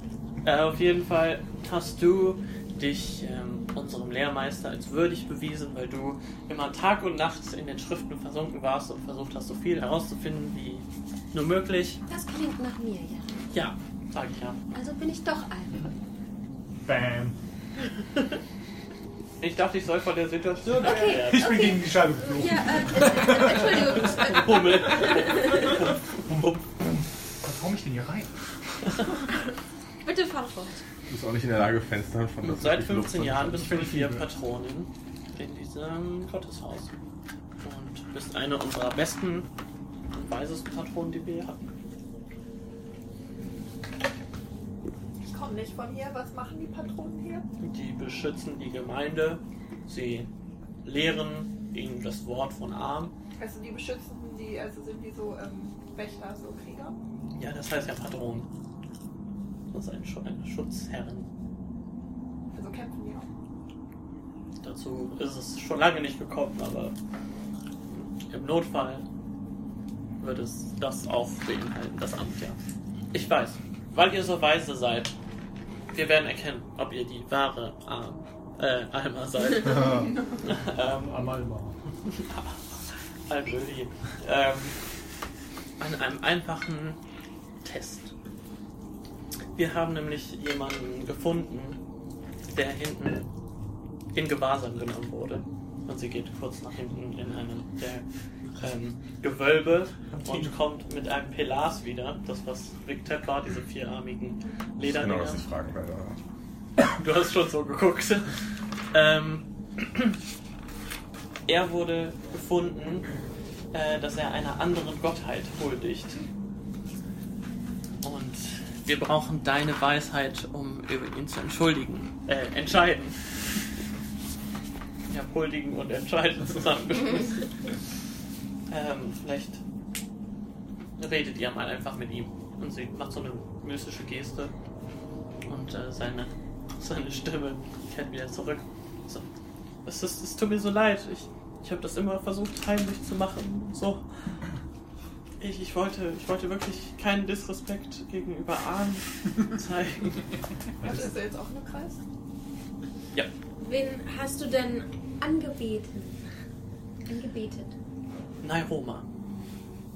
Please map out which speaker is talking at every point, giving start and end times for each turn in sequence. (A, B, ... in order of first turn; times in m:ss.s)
0:00.4-0:12.0 A
0:12.1-0:13.4 B
0:13.5-0:14.6 A
0:14.7-0:15.9 B
0:16.8-0:17.4 C
0:19.4-0:21.5 A
0:20.8-0:25.8 B
0:20.9-0:24.0 C
0:24.0-0:26.7 A
0:27.4-0:28.3 C
0:30.0-0:30.8 B
0:31.1-0:33.6 D
0:32.4-0:36.9 A
0:33.4-0:34.3 C
0:37.6-0:39.5 A
0:40.1-0:41.6 A
0:45.2-0:47.4 E
0:47.6-0:50.3 A
0:50.8-0:53.1 A
0:53.4-0:57.0 E
0:57.4-0:58.5 A
0:59.7-1:01.3 A
1:02.5-1:03.3 E
1:04.6-1:06.9 A
1:07.9-1:09.0 A
1:10.2-1:12.6 A
1:13.1-1:15.1 A
1:15.9-1:21.3 A
1:20.7-1:21.8 C
1:22.1-1:22.6 A
1:23.3-1:24.8 A
1:25.8-1:27.0 A
1:27.6-1:28.1 A
1:29.6-1:31.8 A
1:32.5-1:33.3 A
1:34.1-1:38.0 A
1:38.6-1:45.5 A
1:40.1-1:40.5 C
1:44.8-1:46.2 D
1:46.8-1:48.3 A
1:48.9-1:50.2 A
1:51.5-1:53.1 A
1:53.7-1:56.2 A
1:58.0-2:03.2 A
2:05.1-2:07.7 A
2:08.7-2:09.6 A
2:11.0-2:14.5 A
2:15.4-2:19.3 A
2:19.8-2:24.0 A
2:25.4-2:30.3 A
2:30.8-2:32.0 E
2:30.8-2:31.1 C
2:33.6-2:36.2 B
2:37.1-2:37.7 B
2:38.4-2:39.1 A